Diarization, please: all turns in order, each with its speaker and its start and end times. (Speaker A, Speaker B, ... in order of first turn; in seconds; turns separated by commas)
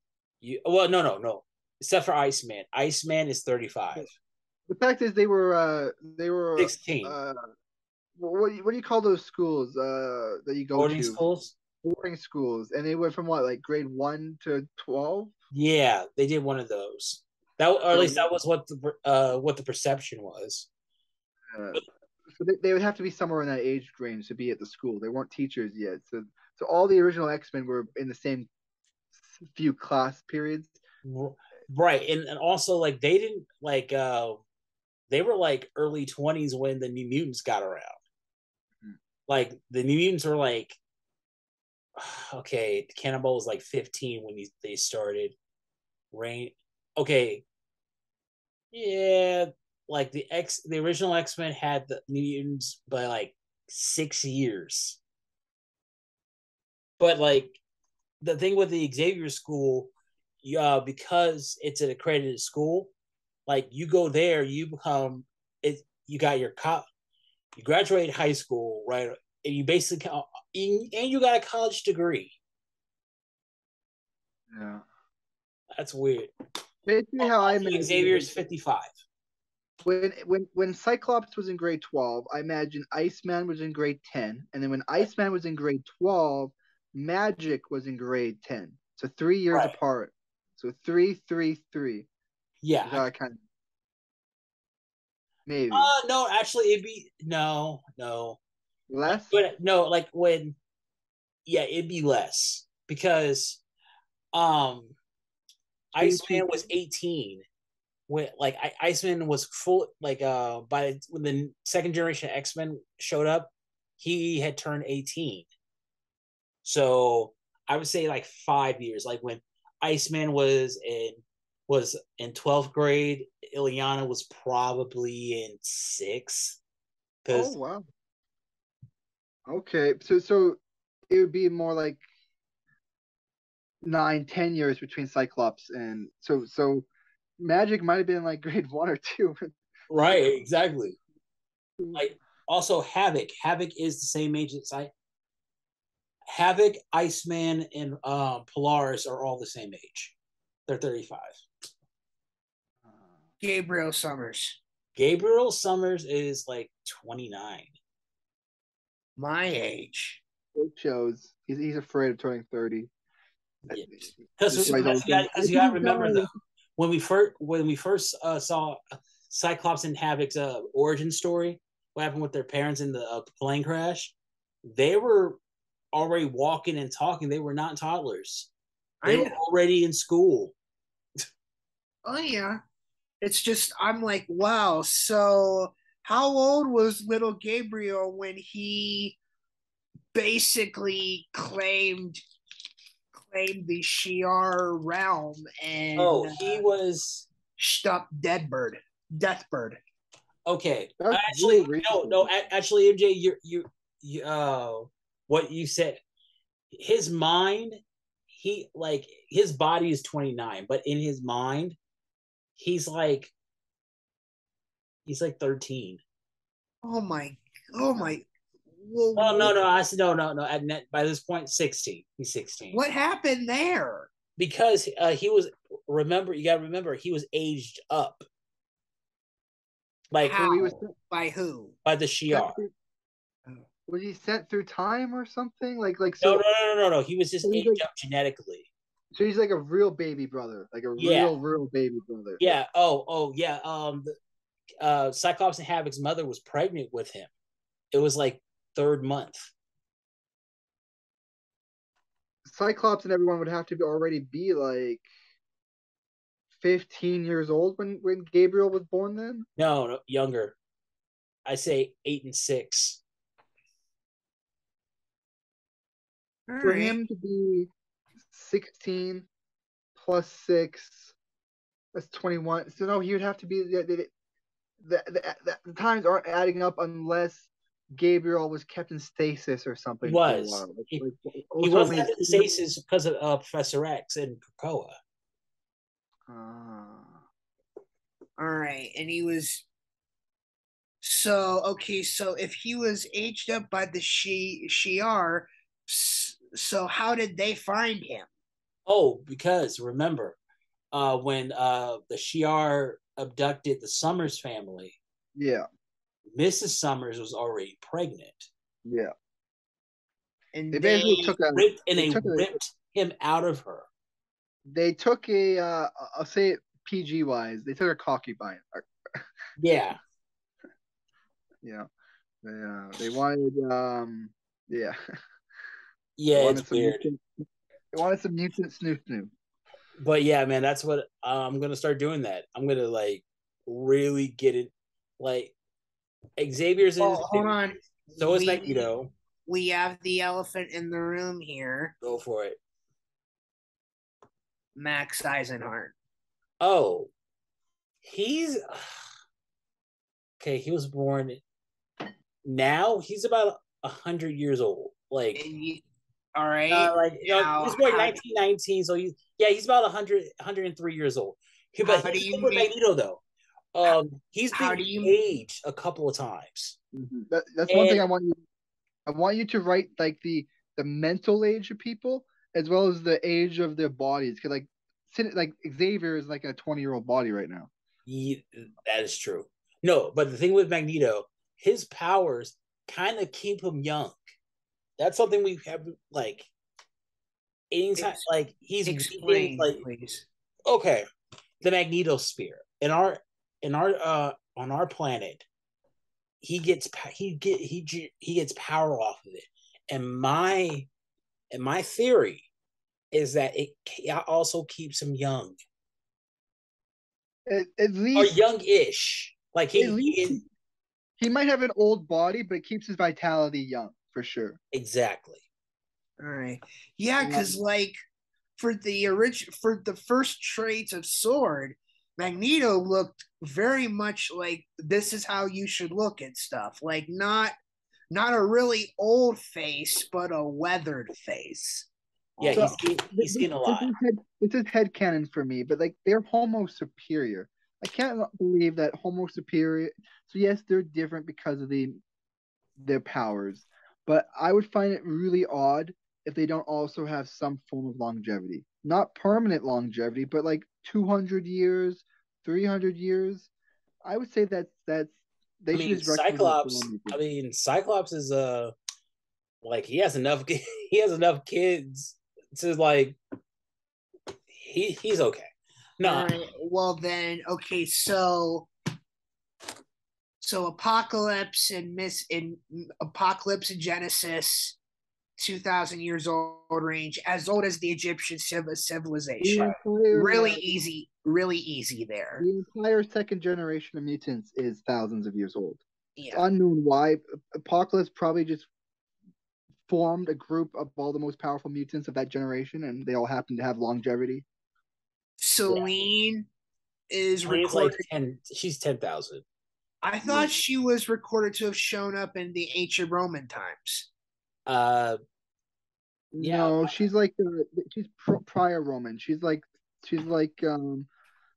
Speaker A: 0.4-4.1, Speaker B: 4.7-7.5, Speaker A: 6.6-7.1, Speaker B: 8.2-11.2, Speaker A: 10.7-11.5, Speaker B: 11.8-15.3, Speaker A: 15.5-20.7, Speaker B: 17.9-18.2, Speaker B: 21.5-28.5, Speaker B: 29.1-30.8, Speaker A: 31.0-34.4, Speaker A: 35.1-38.0, Speaker A: 39.3-40.8, Speaker A: 42.0-45.4, Speaker A: 46.1-47.4, Speaker A: 48.7-55.0, Speaker A: 57.0-57.6, Speaker A: 58.2-62.9, Speaker A: 63.5-66.8, Speaker A: 67.5-72.3, Speaker B: 74.5-74.8, Speaker A: 75.8-76.3, Speaker B: 76.8-78.3, Speaker A: 77.2-78.9, Speaker B: 79.8-92.1, Speaker A: 92.6-93.1, Speaker B: 92.8-93.4, Speaker B: 95.5-95.9, Speaker A: 95.7-98.4, Speaker B: 98.9-99.4, Speaker A: 99.1-100.6, Speaker A: 101.5-103.6, Speaker A: 104.3-104.9, Speaker A: 105.9-107.4, Speaker B: 106.0-106.6, Speaker A: 108.1-115.5, Speaker A: 116.6-126.6, Speaker A: 127.2-127.5, Speaker B: 127.3-127.8, Speaker B: 129.5-132.0, Speaker B: 133.8-139.5, Speaker A: 139.9-141.0, Speaker B: 141.8-142.1, Speaker A: 141.9-144.9, Speaker A: 146.3-150.2, Speaker A: 150.7-151.4, Speaker C: 153.4-154.6, Speaker A: 154.9-157.7, Speaker C: 159.2-160.2, Speaker B: 160.5-162.9, Speaker A: 163.7-175.4, Speaker B: 163.7-166.3, Speaker A: 175.9-178.5, Speaker C: 179.0-179.3, Speaker A: 179.0-180.5, Speaker C: 182.0-182.6, Speaker C: 183.2-189.2, Speaker C: 190.1-192.2, Speaker C: 193.1-196.6, Speaker A: 195.9-197.3, Speaker C: 197.6-199.8, Speaker A: 200.4-206.0, Speaker B: 201.0-202.3, Speaker A: 206.7-207.8, Speaker A: 208.3-211.8, Speaker A: 212.6-213.3, Speaker A: 215.1-216.0, Speaker C: 216.8-219.6, Speaker A: 219.2-222.8, Speaker C: 222.7-224.1, Speaker A: 224.4-228.3, Speaker A: 230.1-230.5, Speaker C: 230.2-231.8, Speaker B: 230.3-230.9, Speaker A: 231.8-232.6, Speaker B: 232.3-232.7, Speaker B: 233.9-236.4, Speaker A: 236.2-238.7, Speaker B: 237.4-237.8, Speaker B: 239.1-242.4, Speaker A: 241.0-241.4, Speaker A: 242.4-244.1, Speaker A: 244.8-247.3, Speaker A: 247.9-249.5, Speaker B: 252.4-255.1, Speaker B: 256.6-259.5, Speaker A: 259.6-260.6, Speaker A: 261.4-263.0, Speaker C: 266.5-267.0, Speaker B: 266.6-267.7, Speaker B: 268.3-269.3, Speaker B: 269.9-271.1, Speaker B: 271.9-274.1, Speaker B: 274.8-282.5, Speaker A: 280.0-281.0, Speaker A: 281.6-285.0, Speaker B: 286.3-287.2, Speaker C: 288.4-289.6, Speaker C: 291.0-298.3, Speaker A: 298.9-300.4, Speaker A: 300.9-305.0, Speaker B: 305.3-305.6, Speaker A: 306.3-308.5, Speaker B: 308.8-309.1, Speaker C: 310.5-311.4, Speaker B: 310.7-312.5, Speaker A: 311.5-313.9, Speaker B: 314.6-319.3, Speaker A: 319.6-320.0, Speaker B: 321.6-321.9, Speaker B: 322.4-325.0, Speaker A: 326.2-327.0, Speaker B: 326.3-327.2, Speaker B: 327.9-329.3, Speaker A: 330.0-335.5, Speaker A: 336.4-339.1, Speaker C: 337.0-338.9, Speaker C: 339.5-341.9, Speaker A: 342.0-342.6, Speaker C: 344.7-345.9, Speaker A: 346.6-347.1, Speaker A: 348.0-349.0, Speaker A: 350.4-351.4, Speaker A: 352.4-355.4, Speaker C: 355.3-355.8, Speaker C: 356.3-358.2, Speaker A: 356.7-363.2, Speaker C: 361.8-362.7, Speaker A: 363.7-366.8, Speaker C: 364.5-365.1, Speaker B: 366.9-368.4, Speaker A: 367.7-368.1, Speaker B: 369.1-377.7, Speaker A: 378.1-384.2, Speaker A: 385.0-386.5, Speaker A: 387.7-389.8, Speaker C: 388.0-388.2, Speaker C: 388.8-390.2, Speaker A: 390.7-391.1, Speaker A: 391.6-395.4, Speaker A: 396.4-400.9, Speaker A: 401.5-402.4, Speaker A: 403.1-405.6, Speaker B: 407.4-408.4, Speaker A: 408.1-410.4, Speaker B: 409.7-410.4, Speaker B: 411.2-414.6, Speaker A: 414.7-415.4, Speaker C: 416.2-417.9, Speaker B: 417.2-417.6, Speaker C: 418.6-427.5, Speaker C: 428.1-431.9, Speaker C: 432.4-432.8, Speaker A: 432.4-433.9, Speaker B: 432.5-442.0, Speaker B: 442.8-453.5, Speaker B: 454.0-457.2, Speaker A: 455.7-458.7, Speaker A: 459.6-463.2, Speaker A: 464.5-466.3, Speaker C: 466.0-468.7, Speaker C: 470.4-474.8, Speaker C: 475.4-482.4, Speaker B: 479.4-480.8, Speaker B: 482.4-485.8, Speaker C: 486.2-486.4, Speaker B: 486.3-488.7, Speaker B: 489.9-494.4, Speaker C: 495.4-496.5, Speaker C: 497.1-498.0, Speaker A: 497.4-499.4, Speaker C: 500.0-504.1, Speaker B: 500.2-500.6, Speaker A: 504.6-505.2, Speaker B: 506.3-511.1, Speaker A: 506.4-507.0